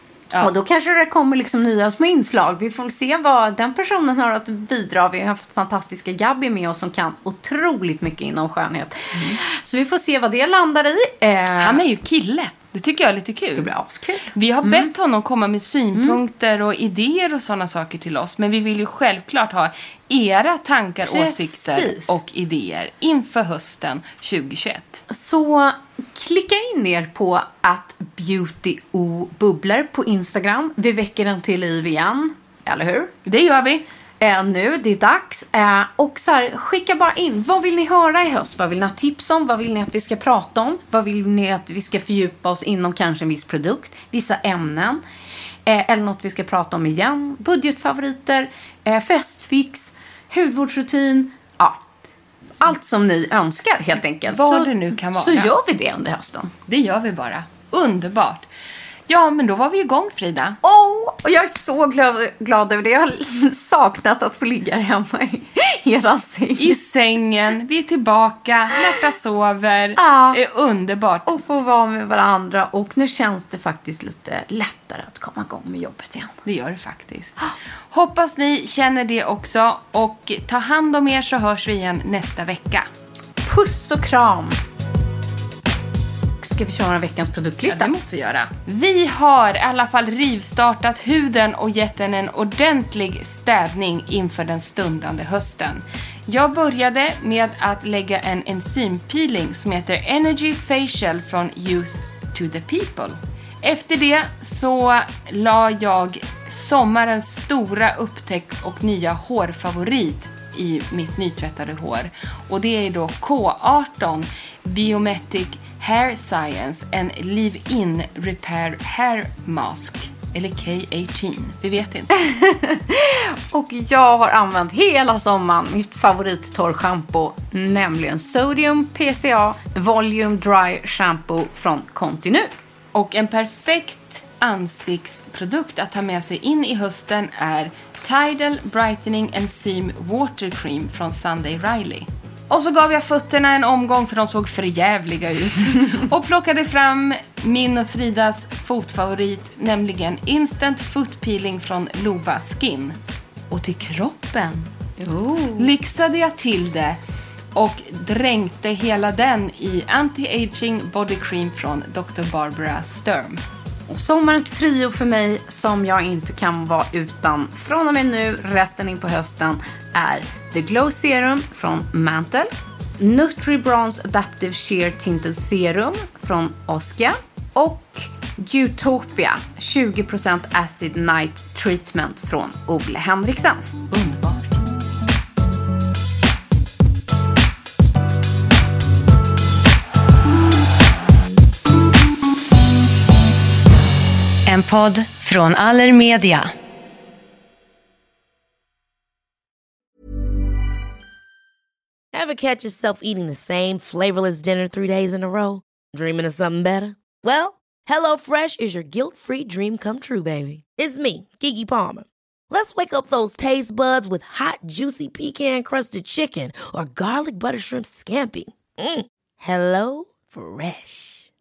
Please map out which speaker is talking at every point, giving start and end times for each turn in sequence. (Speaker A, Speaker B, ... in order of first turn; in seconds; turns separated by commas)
Speaker A: 0.4-11.8, Speaker B: 11.6-13.7, Speaker A: 13.5-14.9, Speaker B: 14.3-25.0, Speaker A: 21.0-22.2, Speaker A: 25.1-33.1, Speaker B: 33.2-33.8, Speaker A: 34.2-45.0, Speaker A: 45.6-51.8, Speaker A: 52.6-56.5, Speaker B: 54.3-55.5, Speaker B: 56.7-58.5, Speaker B: 59.1-60.6, Speaker A: 60.6-66.8, Speaker B: 66.6-71.2, Speaker A: 70.0-70.4, Speaker A: 71.2-76.4, Speaker B: 76.4-82.9, Speaker A: 83.4-84.6, Speaker A: 86.4-87.9, Speaker B: 87.7-122.1, Speaker A: 122.2-132.5, Speaker B: 132.9-153.0, Speaker B: 153.5-154.7, Speaker A: 155.0-155.7, Speaker B: 155.6-157.0, Speaker B: 157.5-163.4, Speaker A: 163.9-183.7, Speaker B: 183.9-184.4, Speaker B: 194.5-196.5, Speaker C: 202.1-221.3